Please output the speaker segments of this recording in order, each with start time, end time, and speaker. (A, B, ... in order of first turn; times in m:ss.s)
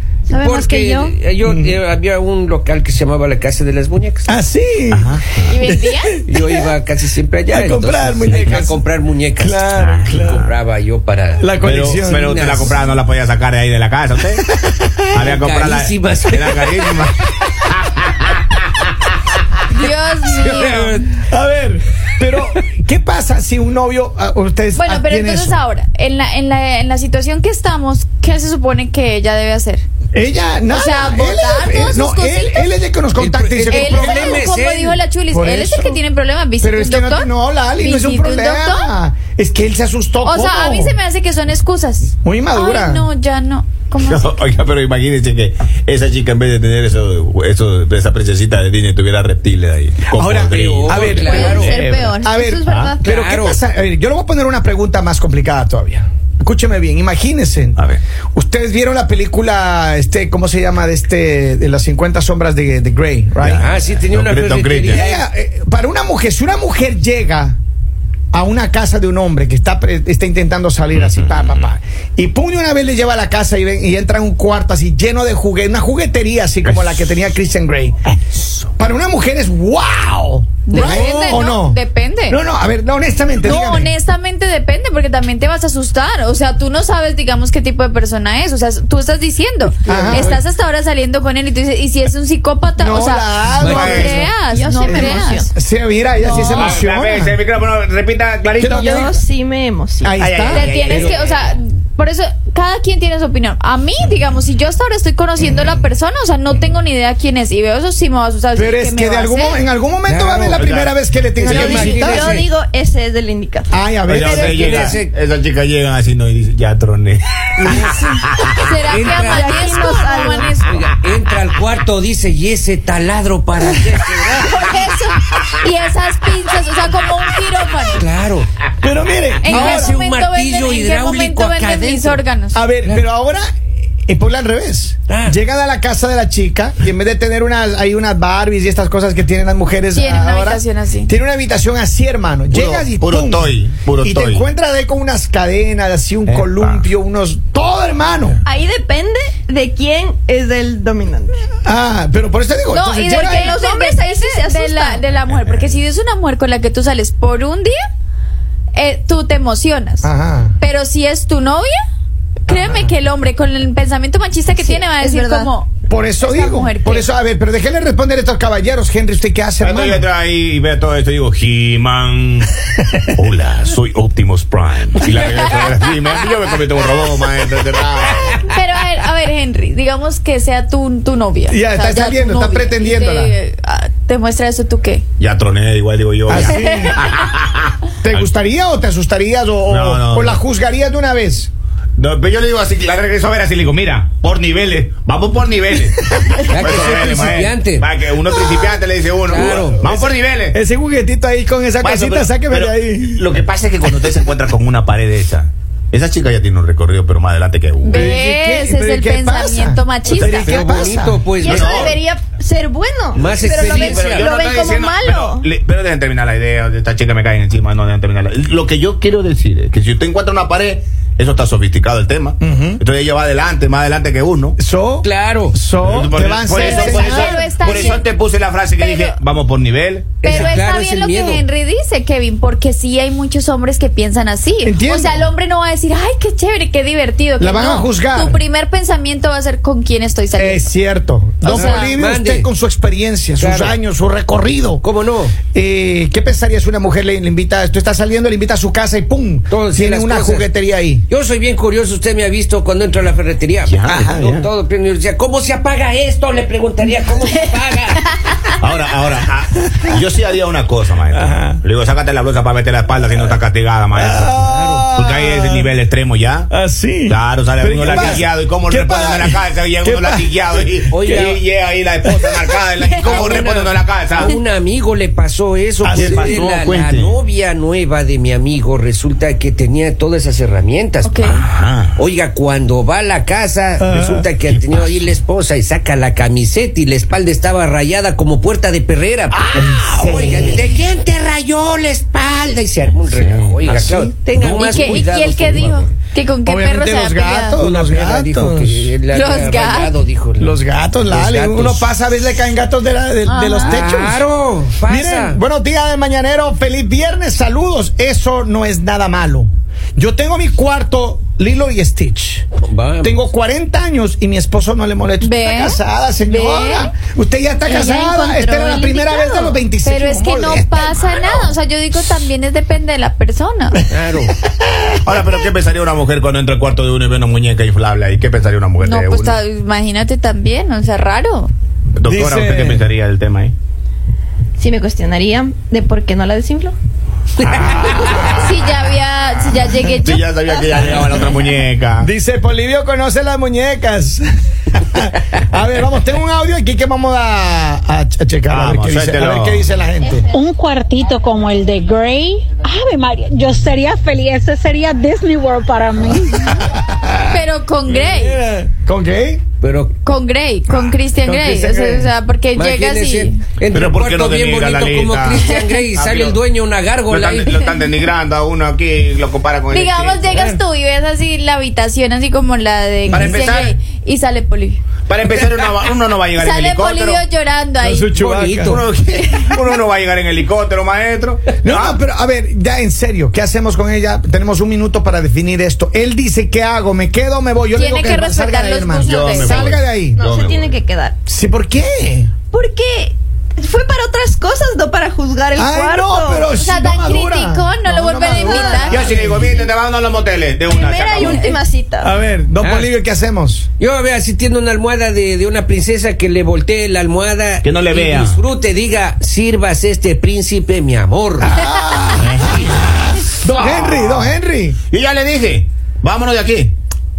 0:00.3-0:01.1 A
0:00.3-0:04.4 B
0:01.4-0:01.8 C
0:04.2-0:06.7 C
0:04.9-0:05.5 D
0:05.5-0:06.2 E
0:06.3-0:11.5 B
0:07.5-0:08.8 C
0:08.3-0:08.6 D
0:09.4-0:10.5 C
0:09.8-0:10.4 D
0:11.4-0:12.7 C
0:11.6-0:14.4 D
0:12.1-0:12.7 B
0:14.5-0:14.9 C
0:15.1-0:18.3 D
0:15.1-0:17.0 B
0:19.7-0:21.0 E
0:20.4-0:21.2 B
0:21.3-0:25.6 C
0:24.7-0:29.8 E
0:30.1-0:34.4 C
0:30.7-0:32.7 E
0:33.2-0:35.0 B
0:33.6-0:38.9 E
0:35.3-0:36.0 C
0:36.6-0:41.0 C
0:40.2-0:44.3 E
0:42.2-0:43.1 C
0:44.0-0:51.2 D
0:50.1-0:57.8 C
0:50.5-0:51.8 B
0:51.1-0:52.2 E
0:51.2-0:53.0 A
0:52.6-0:52.9 D
0:53.0-0:53.6 B
0:58.3-1:03.6 C
1:03.4-1:05.0 D
1:03.6-1:05.2 B
1:04.8-1:07.6 C
1:08.3-1:18.0 C
1:10.9-1:11.7 D
1:18.8-1:23.9 C
1:20.6-1:22.4 E
1:20.7-1:21.4 B
1:23.4-1:35.4 E
1:29.8-1:30.4 C
1:29.8-1:30.4 B
1:32.8-1:37.4 C
1:33.6-1:34.0 B
1:33.6-1:34.2 D
1:34.3-1:35.5 A
1:36.2-1:36.7 A
1:36.3-1:36.7 E
1:36.5-1:39.1 D
1:38.6-1:39.2 C
1:38.6-1:40.2 A
1:40.0-1:41.0 C
1:40.2-1:41.6 D
1:40.5-1:49.6 E
1:45.4-1:45.8 C
1:48.5-1:52.4 C
1:50.0-1:52.5 B
1:50.5-1:50.9 D
1:51.4-1:53.7 A
1:53.7-1:54.9 C
1:54.0-1:58.7 D
1:54.3-1:55.1 B
1:57.6-1:58.0 B
1:58.6-2:00.8 E
1:58.9-1:59.8 B
1:59.1-2:00.5 A
2:00.6-2:04.7 B
2:04.4-2:08.0 E
2:08.0-2:08.5 B
2:08.8-2:10.0 C
2:09.4-2:12.6 E
2:09.4-2:12.2 B
2:12.5-2:13.5 C
2:14.0-2:28.4 C
2:15.1-2:15.4 B
2:19.9-2:21.1 E
2:22.5-2:24.5 D
2:26.3-2:26.9 D
2:28.4-2:31.4 A
2:31.6-2:33.5 C
2:32.7-2:37.7 E
2:33.1-2:35.0 A
2:35.2-2:35.7 D
2:38.7-2:41.8 E
2:40.0-2:40.6 C
2:42.5-2:47.1 E
2:42.5-2:42.9 C
2:44.5-2:45.5 A
2:45.9-2:50.1 C
2:49.6-2:52.5 D
2:53.1-2:58.4 D
2:55.1-2:55.6 E
2:58.4-3:05.0 E
3:01.5-3:03.4 C
3:05.2-3:08.2 D
3:06.3-3:07.0 C
3:06.3-3:07.1 E
3:08.0-3:11.5 C
3:09.7-3:10.4 D
3:12.0-3:20.6 D
3:16.5-3:17.9 B
3:19.2-3:19.8 B
3:19.8-3:23.4 C
3:21.8-3:28.1 D
3:27.8-3:30.8 E
3:27.9-3:31.3 C
3:30.1-3:32.0 B
3:31.4-3:35.4 A
3:31.4-3:31.9 D
3:33.1-3:34.3 B
3:33.4-3:44.6 D
3:42.4-3:42.8 C
3:44.6-3:47.5 C
3:45.0-3:45.5 B
3:45.8-3:50.3 D
3:46.5-3:48.0 E
3:48.8-3:49.2 E
3:50.2-3:51.4 B
3:50.2-4:00.6 E
3:54.6-3:55.3 C
3:57.4-3:58.4 C
4:00.3-4:04.8 C
4:01.4-4:01.9 E
4:01.5-4:02.5 B
4:03.4-4:03.8 B
4:04.8-4:05.4 B
4:05.5-4:11.0 C
4:09.5-4:10.5 B
4:11.1-4:18.1 B
4:13.7-4:14.5 D
4:13.8-4:14.3 C
4:18.6-4:24.4 D
4:21.1-4:21.6 C
4:23.9-4:25.7 C
4:24.3-4:24.9 B
4:24.9-4:26.5 D
4:26.5-4:30.5 C
4:27.1-4:34.3 D
4:30.9-4:31.4 B
4:32.8-4:33.4 E
4:33.0-4:41.4 B
4:35.8-4:36.4 C
4:35.9-4:37.2 D
4:41.0-4:41.4 E
4:41.3-4:42.0 D
4:42.0-4:55.9 B
4:43.8-4:44.3 C
4:49.3-4:50.5 C
4:53.1-4:54.0 D
4:54.0-4:54.8 A
4:54.5-4:57.6 E
4:56.4-4:58.9 C
4:57.6-5:00.5 B
4:59.1-4:59.9 E
5:00.4-5:04.3 C
5:01.1-5:01.9 B
5:03.2-5:03.8 E
5:03.6-5:05.4 B
5:04.8-5:12.4 C
5:12.6-5:13.2 B
5:13.0-5:21.6 C
5:15.2-5:16.9 E
5:17.6-5:19.6 A
5:19.8-5:23.8 E
5:23.9-5:24.3 B
5:24.6-5:25.0 C
5:25.0-5:29.4 D
5:28.8-5:31.5 E
5:32.0-5:33.5 D
5:32.0-5:32.8 C
5:34.6-5:36.7 A
5:37.6-5:38.4 D
5:38.3-5:40.2 E
5:40.0-5:42.1 D
5:40.4-5:40.8 A
5:42.0-5:50.3 C
5:48.5-5:49.7 D
5:50.3-5:56.6 F
5:56.4-5:59.4 C
5:57.3-5:58.4 E
5:59.6-5:59.9 B
6:00.0-6:03.4 E
6:00.7-6:02.1 C
6:02.5-6:07.7 B
6:03.7-6:06.4 D
6:07.0-6:10.3 D
6:09.7-6:14.8 E
6:10.3-6:10.6 B
6:13.1-6:13.7 D
6:13.1-6:13.7 C
6:15.1-6:17.2 D
6:16.4-6:18.1 E
6:17.8-6:18.8 C
6:18.1-6:18.8 B
6:18.6-6:22.0 D
6:21.6-6:30.2 C
6:27.7-6:29.5 E
6:29.0-6:30.8 D
6:29.4-6:31.1 A
6:31.2-6:32.3 C
6:32.5-6:36.5 A
6:35.5-6:39.6 C
6:36.6-6:39.0 E
6:38.2-6:39.7 A
6:38.9-6:41.4 D
6:40.7-6:42.1 A
6:41.2-6:41.6 E
6:42.0-6:43.7 C
6:42.6-6:42.9 B
6:43.8-6:51.5 B
6:47.6-6:48.4 D
6:51.4-6:54.8 C
6:52.2-6:54.3 D
6:54.9-6:56.7 D